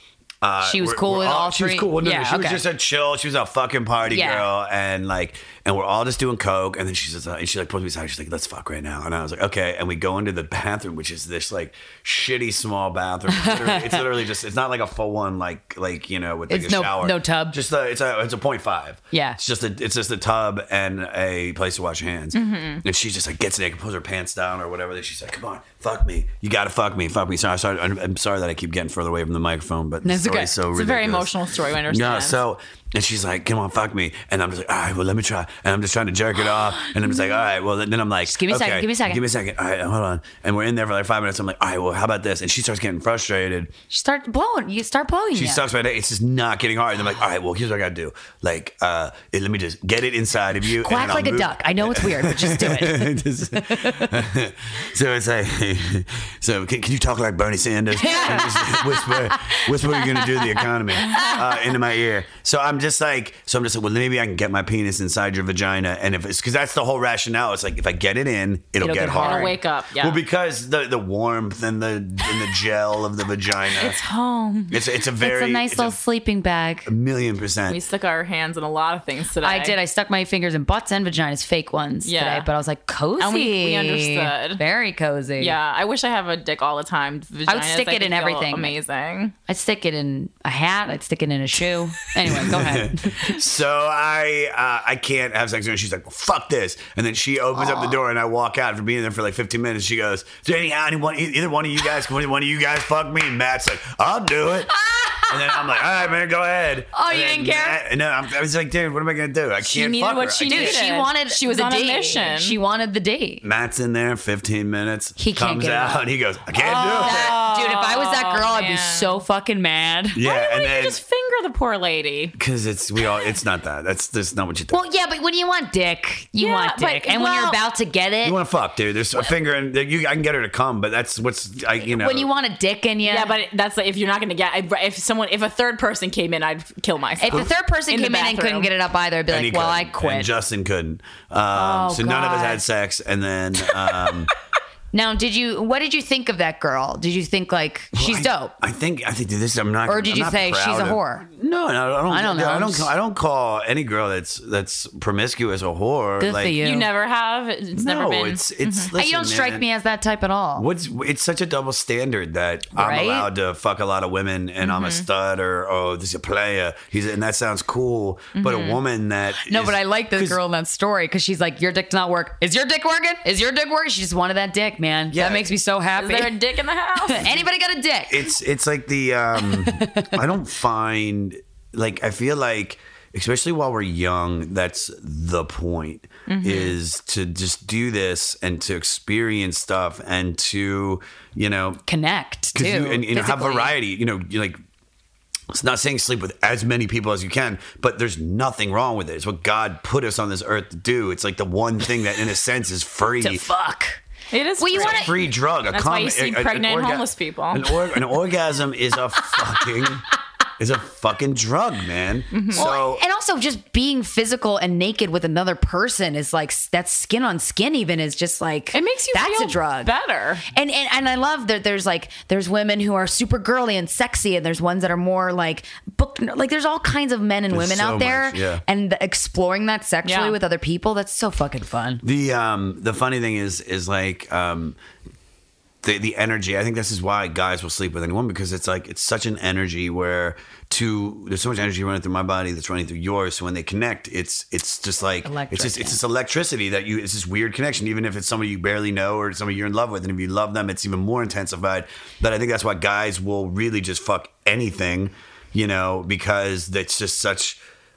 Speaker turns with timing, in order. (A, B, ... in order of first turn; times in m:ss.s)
0:00.4-0:31.3 A
0:00.6-0:02.6 B
0:04.1-0:04.5 B
0:13.3-0:14.0 B
0:16.5-0:17.6 B
0:19.1-0:19.4 B
0:22.3-0:22.8 C
0:30.0-0:30.5 B
0:30.7-0:32.4 C
0:31.9-0:43.7 A
0:38.3-0:39.2 B
0:43.9-0:45.6 B
0:45.3-1:14.0 A
0:50.8-0:54.2 B
0:58.0-1:01.6 B
1:01.1-1:01.4 C
1:08.8-1:09.6 B
1:09.1-1:10.2 C
1:13.7-1:14.8 C
1:14.7-1:16.0 A
1:15.2-1:16.9 B
1:16.8-1:17.8 A
1:17.7-1:19.8 C
1:19.4-1:25.6 B
1:22.0-1:22.5 C
1:23.2-1:24.6 C
1:25.4-1:29.3 C
1:27.5-1:28.7 B
1:29.5-1:33.4 B
1:32.3-1:50.8 A
1:37.5-1:38.0 B
1:45.0-1:45.4 B
1:46.9-1:47.8 B
1:49.6-1:52.6 C
1:50.4-1:53.4 B
1:53.4-1:57.4 A
1:55.2-2:00.2 B
1:56.7-1:59.2 C
2:00.1-2:01.0 A
2:00.2-2:02.4 C
2:02.4-2:04.8 A
2:04.7-2:08.4 B
2:06.4-2:07.6 C
2:08.2-2:12.3 A
2:11.8-2:13.3 B
2:13.0-2:18.7 C
2:17.2-2:20.3 B
2:19.3-2:24.3 A
2:21.5-2:22.6 B
2:24.9-2:28.5 B
2:27.9-2:36.6 A
2:29.8-2:31.3 B
2:32.1-2:32.9 B
2:36.2-2:36.9 B
2:36.6-2:38.9 C
2:37.8-2:39.6 A
2:38.9-2:40.7 B
2:40.6-2:50.4 A
2:42.7-2:43.3 B
2:44.6-2:45.0 C
2:48.3-2:48.8 C
2:49.4-2:56.3 B
2:55.1-2:55.5 A
2:56.0-2:57.3 C
2:57.0-2:58.3 B
2:58.1-3:11.8 A
2:59.3-3:00.2 B
3:06.3-3:06.8 C
3:11.9-3:13.7 B
3:12.5-3:14.6 A
3:15.5-3:23.5 A
3:23.2-3:24.0 B
3:24.3-3:25.2 C
3:24.6-3:25.1 B
3:24.7-3:33.0 A
3:25.7-3:27.7 C
3:32.3-3:32.7 C
3:32.5-3:39.9 B
3:38.7-3:40.4 C
3:40.5-3:52.0 B
3:47.5-3:48.6 A
3:50.0-3:50.4 C
3:52.0-3:54.8 A
3:55.8-4:17.6 A
4:05.2-4:06.0 B